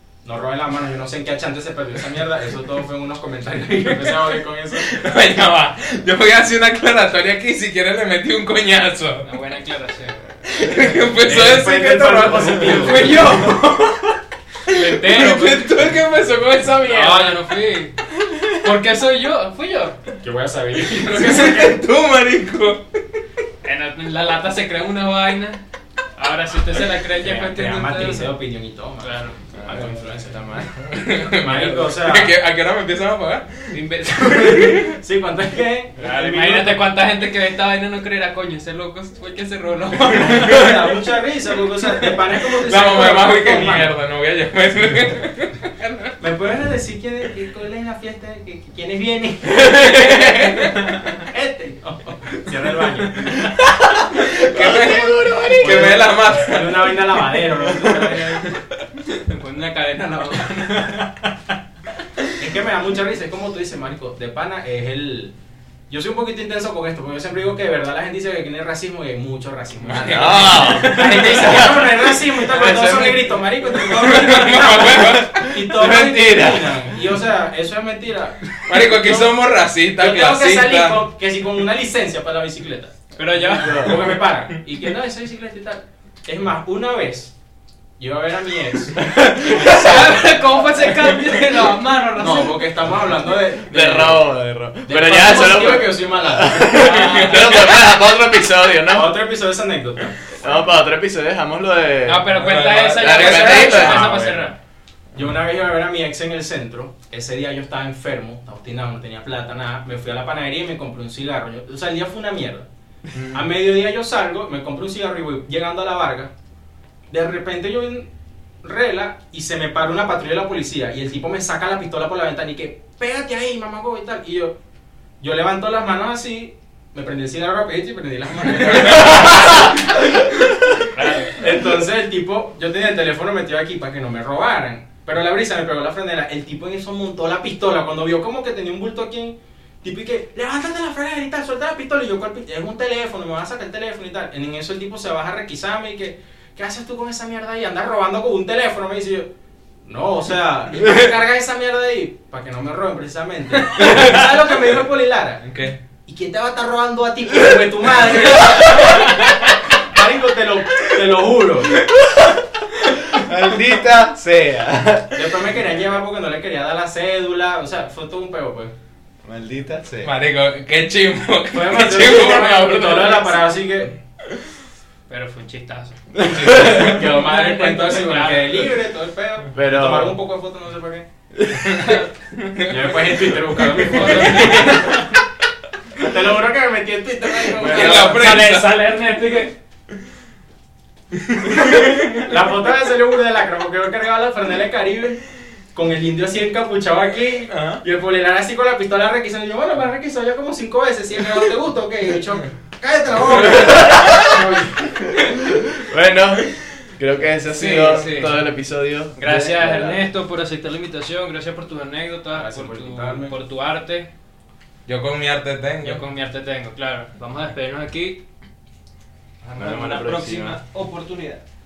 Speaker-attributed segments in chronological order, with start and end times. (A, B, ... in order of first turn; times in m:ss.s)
0:00.2-0:05.0 A
0:04.0-0:09.3 B
0:09.2-0:10.2 C
0:10.4-0:13.5 B
0:11.2-0:13.1 A
0:12.6-0:15.8 C
0:14.7-0:17.4 B
0:16.8-0:20.0 C
0:20.2-0:21.8 A
0:20.9-0:23.0 B
0:23.6-0:25.6 C
0:26.2-0:28.4 C
0:27.2-0:30.6 A
0:29.0-0:29.4 C
0:29.5-0:30.7 D
0:30.8-0:35.0 B
0:31.3-0:32.3 A
0:33.7-0:34.9 C
0:34.8-0:36.8 A
0:36.0-0:40.9 C
0:40.2-0:40.6 B
0:40.2-0:43.9 A
0:42.6-0:46.1 B
0:46.2-0:53.3 A
0:53.3-0:56.0 D
0:54.1-0:57.1 B
0:55.6-0:58.5 A
0:59.1-1:01.1 C
1:02.4-1:05.3 A
1:05.9-1:19.4 A
1:09.8-1:11.0 B
1:09.9-1:13.4 D
1:13.8-1:15.5 B
1:15.2-1:16.9 D
1:18.7-1:21.0 B
1:20.0-1:27.3 A
1:23.2-1:24.0 C
1:23.5-1:24.1 D
1:28.0-1:30.1 A
1:29.0-1:30.0 D
1:29.4-1:32.7 C
1:32.2-1:34.3 A
1:33.6-1:39.2 D
1:34.9-1:37.6 A
1:36.7-1:37.8 B
1:38.9-1:40.7 A
1:40.4-1:42.4 D
1:42.1-1:44.6 C
1:42.3-1:44.0 B
1:43.0-1:44.1 D
1:43.2-1:44.5 A
1:45.2-1:52.7 A
1:53.1-1:53.4 B
1:53.3-1:56.3 A
1:57.1-1:58.1 A
1:58.6-2:04.6 A
2:05.2-2:10.0 A
2:11.0-2:11.4 C
2:11.3-2:29.3 A
2:29.8-2:35.4 A
2:35.4-2:35.8 B
2:36.1-2:41.8 A
2:41.9-2:42.3 D
2:43.0-2:45.5 D
2:45.2-2:48.7 A
2:49.2-2:50.1 D
2:50.0-2:53.5 B
2:51.5-2:54.0 A
2:55.1-2:58.8 C
2:56.2-2:56.8 D
2:56.5-3:01.1 A
2:59.5-3:00.2 D
3:01.4-3:01.8 D
3:01.7-3:02.8 B
3:01.8-3:02.1 C
3:02.7-3:05.1 A
3:03.6-3:05.1 C
3:06.0-3:08.4 A
3:07.6-3:08.0 D
3:07.6-3:09.5 C
3:07.6-3:08.8 B
3:11.1-3:12.3 B
3:12.2-3:15.2 A
3:15.7-3:24.9 A
3:17.5-3:17.8 B
3:23.2-3:24.4 D
3:25.1-3:30.0 D
3:27.4-3:28.5 C
3:29.2-3:34.1 C
3:32.3-3:33.4 A
3:34.9-3:36.0 B
3:35.8-3:38.2 C
3:39.4-3:41.4 C
3:39.6-3:40.6 D